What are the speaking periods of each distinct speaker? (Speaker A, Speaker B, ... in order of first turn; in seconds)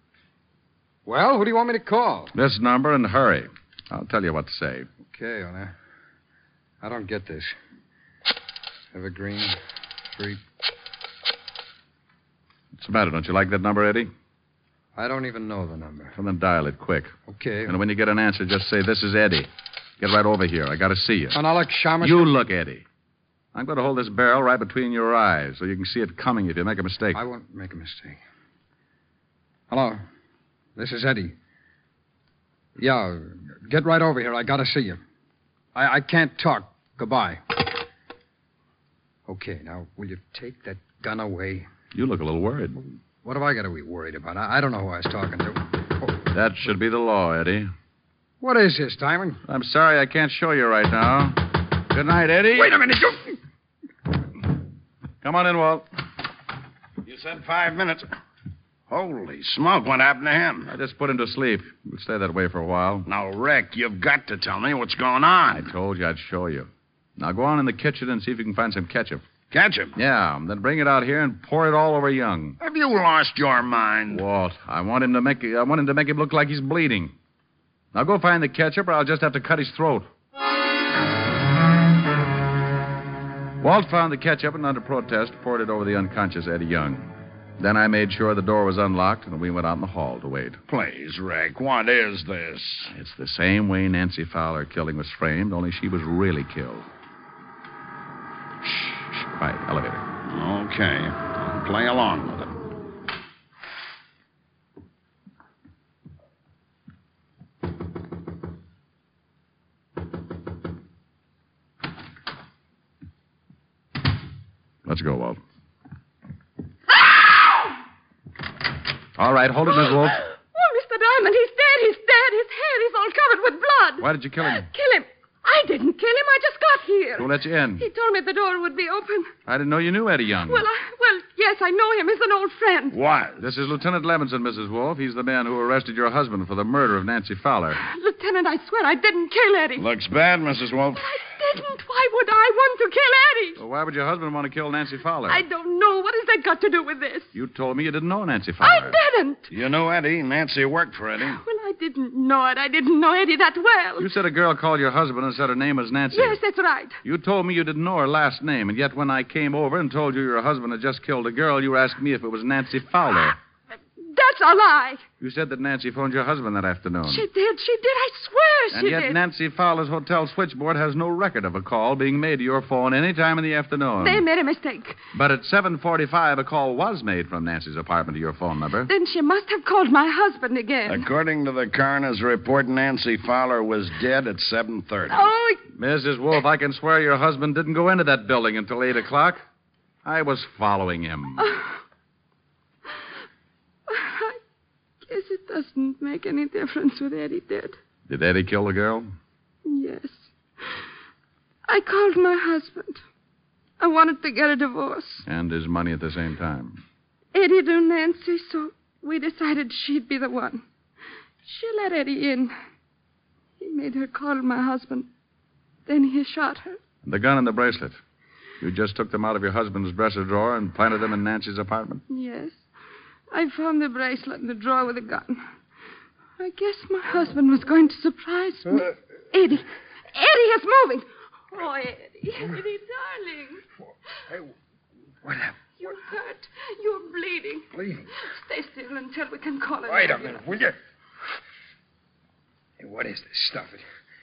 Speaker A: 1.1-2.3, 5.1-5.7, 6.8-7.5, 8.9-9.6, 10.1-10.4, 14.9-16.1, 17.3-17.8, 21.3-22.4, 27.1-28.2, 29.7-30.0, 30.8-31.3, 32.8-35.0, 35.7-37.7, 39.3-41.7, 43.2-46.1, 48.4-49.4, 52.6-53.3, 235.2-235.7, 237.7-238.1, 239.8-240.8, 242.8-243.8
Speaker B: 2.3-4.9, 12.7-14.1, 16.1-17.1, 17.6-21.4, 22.0-22.8, 23.5-27.2, 41.9-42.8, 46.3-47.7, 49.5-52.8, 55.2-55.9, 60.7-63.1, 65.5-69.2, 70.0-72.6, 74.1-77.1, 77.9-80.1, 83.6-90.6, 92.8-96.9, 98.7-100.0, 114.8-115.4, 119.2-120.2, 124.0-124.7, 127.2-127.9, 129.4-130.7, 133.4-137.8, 143.6-145.4, 147.3-149.0, 154.0-156.4, 157.0-163.3, 165.2-167.3, 168.7-174.3, 175.1-178.9, 185.7-189.4, 190.0-191.5, 198.1-199.1, 205.2-206.8, 217.0-218.0, 218.6-222.0
Speaker C: 57.0-58.1, 58.9-60.7, 63.1-65.7, 69.5-69.9, 72.6-74.2, 90.7-92.9, 100.3-102.5, 132.9-133.4, 139.8-141.1, 149.5-151.4, 180.9-185.2
Speaker D: 120.6-124.0, 124.8-127.2, 127.9-129.2, 130.6-132.9, 138.0-139.8, 141.1-143.5, 145.3-147.2, 148.7-149.4, 151.4-154.0, 156.2-156.9, 164.1-165.0, 167.1-169.1, 174.0-174.9, 178.9-181.0, 185.3-185.5, 195.1-197.8, 199.7-200.2, 201.7-203.0, 203.8-205.2, 207.3-210.6, 211.5-212.5, 213.6-215.1, 215.9-216.7, 222.1-222.6, 223.3-225.4, 226.4-228.8, 229.3-229.6, 230.1-233.6, 235.8-237.6, 238.4-240.4